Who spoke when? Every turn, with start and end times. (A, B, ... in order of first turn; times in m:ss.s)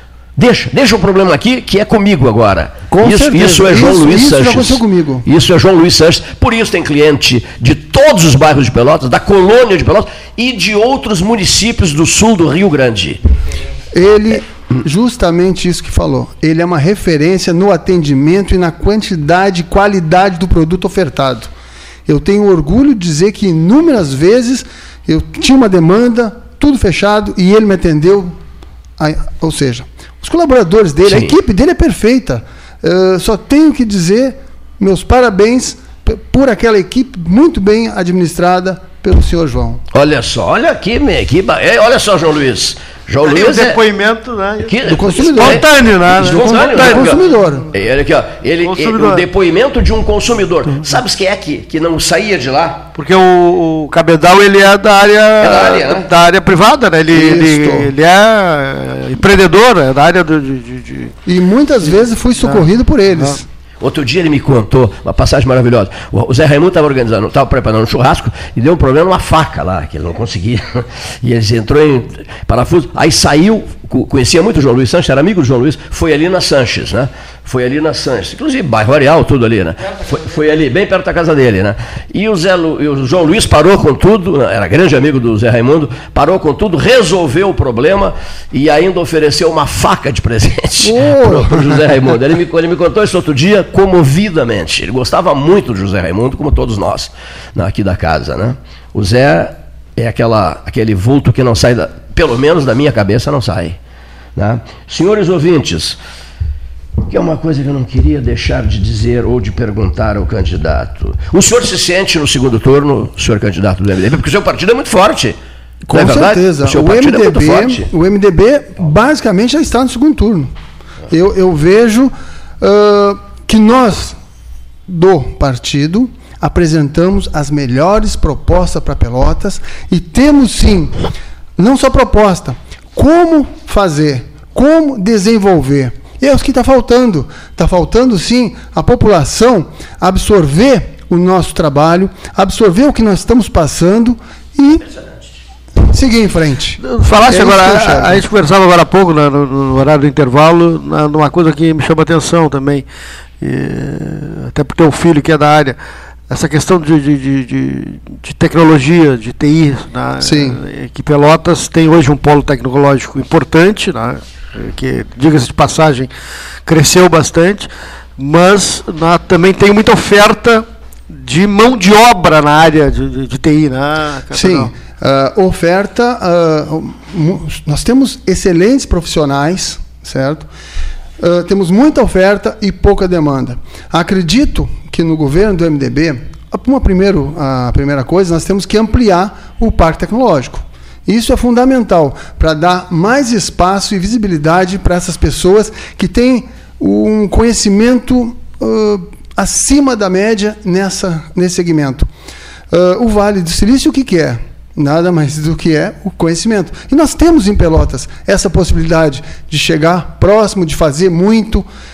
0:00.4-0:13.2 A
0:02.9-0:05.3 B
0:13.9-0:21.5 B
0:22.1-0:28.4 B
0:29.0-0:39.8 B
0:31.1-0:31.4 A
0:39.9-0:43.8 A
0:43.2-0:47.5 C
0:44.6-0:52.9 A
0:44.9-0:45.6 B
0:46.3-0:47.6 B
0:48.6-0:49.3 C
0:53.0-1:01.2 C
0:55.4-0:56.1 A
0:57.1-0:57.9 B
1:01.3-1:03.4 B
1:01.8-1:03.4 C
1:03.8-1:43.8 A
1:30.8-1:32.1 B
1:44.4-1:46.0 A
1:47.1-1:55.4 A
1:55.9-2:00.5 B
1:55.9-1:57.9 A
2:01.1-2:04.2 B
2:04.9-2:11.1 B
2:11.6-2:24.9 B
2:25.9-2:28.2 B
2:26.8-2:32.9 C
2:33.4-2:35.8 C
2:36.3-2:46.1 C
2:40.2-2:40.6 B
2:46.7-2:54.7 C
2:54.3-3:00.5 B
3:01.2-3:22.1 B
3:22.7-3:31.7 B